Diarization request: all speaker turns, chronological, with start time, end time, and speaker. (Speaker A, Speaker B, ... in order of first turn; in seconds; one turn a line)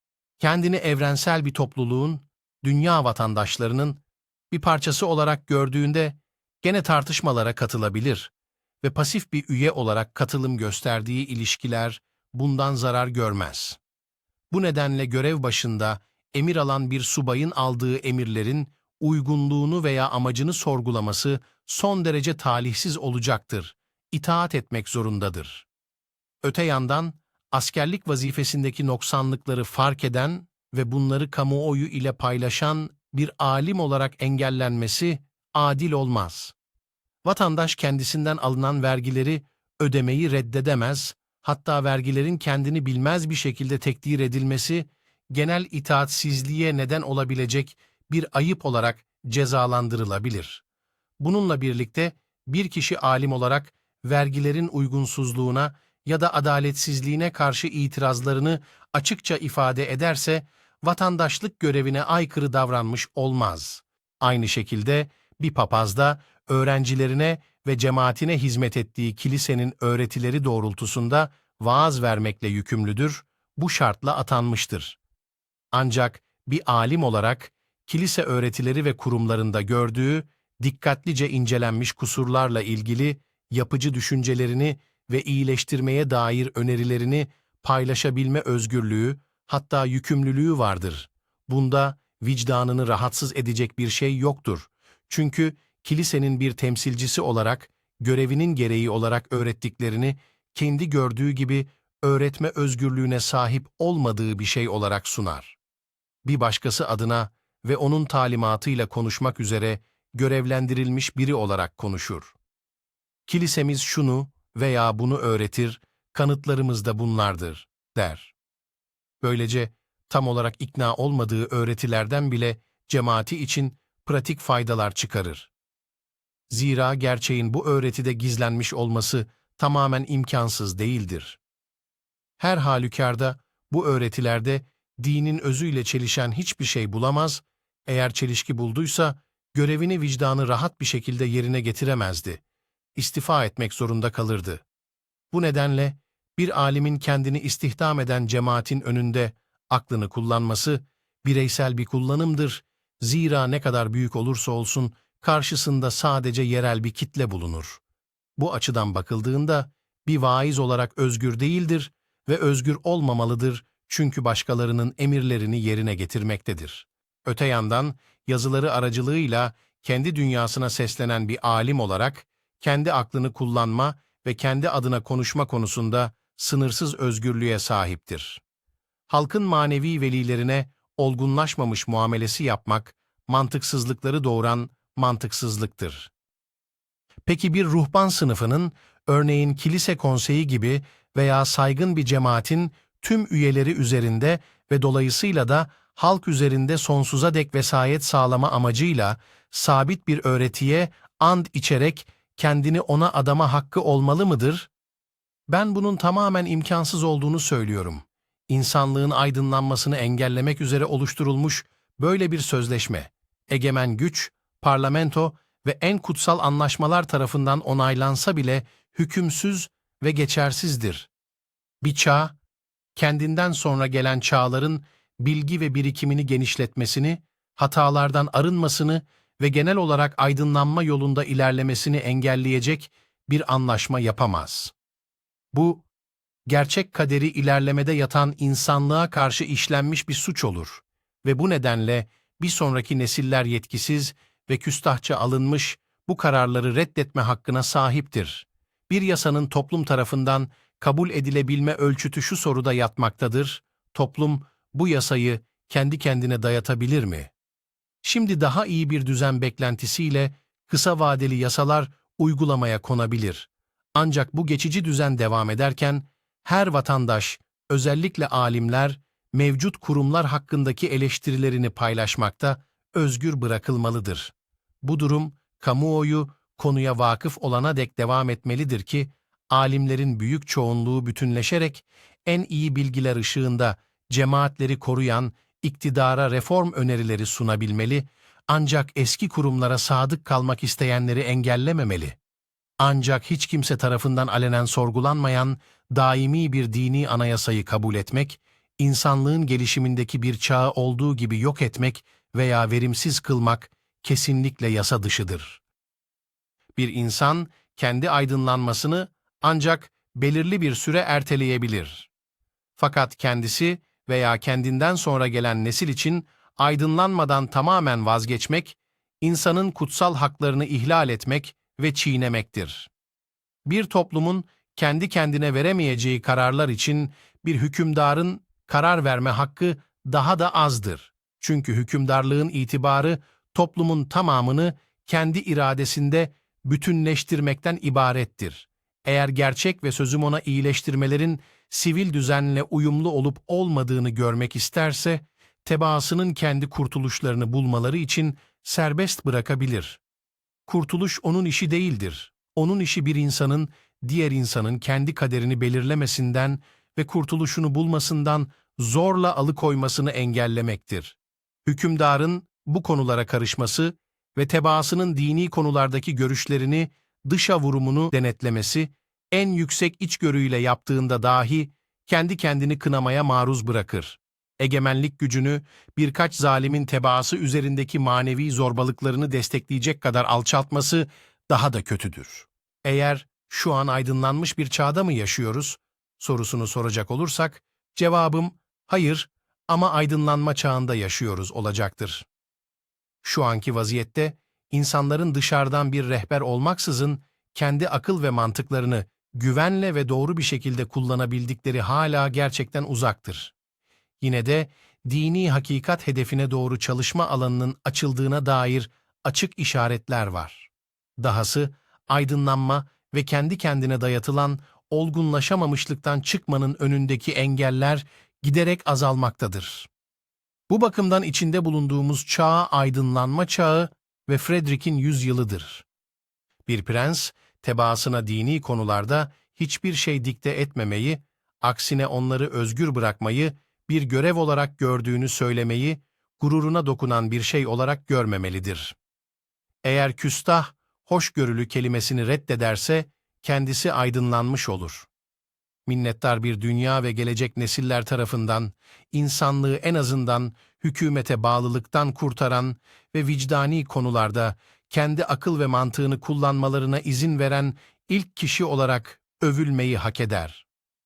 Speaker A: 0.4-13.8
Speaker A: 14.5-25.6
Speaker A: 26.4-36.5
Speaker A: 37.2-50.6
Speaker A: 51.2-75.0
Speaker A: 75.7-105.6
Speaker A: 106.2-112.3
Speaker A: 113.3-118.3
Speaker A: 119.2-125.5
Speaker A: 126.5-131.4
Speaker A: 132.4-142.4
Speaker A: 142.9-144.6
Speaker A: 145.3-157.8
Speaker A: 158.4-178.4
Speaker A: 179.1-186.1
Speaker A: 187.2-204.7
Speaker A: 205.5-221.1
Speaker A: 221.8-222.3
Speaker A: 222.9-234.7
Speaker A: 235.5-235.8
Speaker A: 236.5-257.3
Speaker A: 258.0-292.2
Speaker A: 292.8-305.6
Speaker A: 306.7-312.1
Speaker A: 312.8-322.9
Speaker A: 323.6-350.0
Speaker A: 350.7-392.2
Speaker A: 393.2-403.5
Speaker A: 404.2-419.9
Speaker A: 420.7-425.8
Speaker A: 426.6-438.9
Speaker A: 439.8-445.1
Speaker A: 445.9-460.6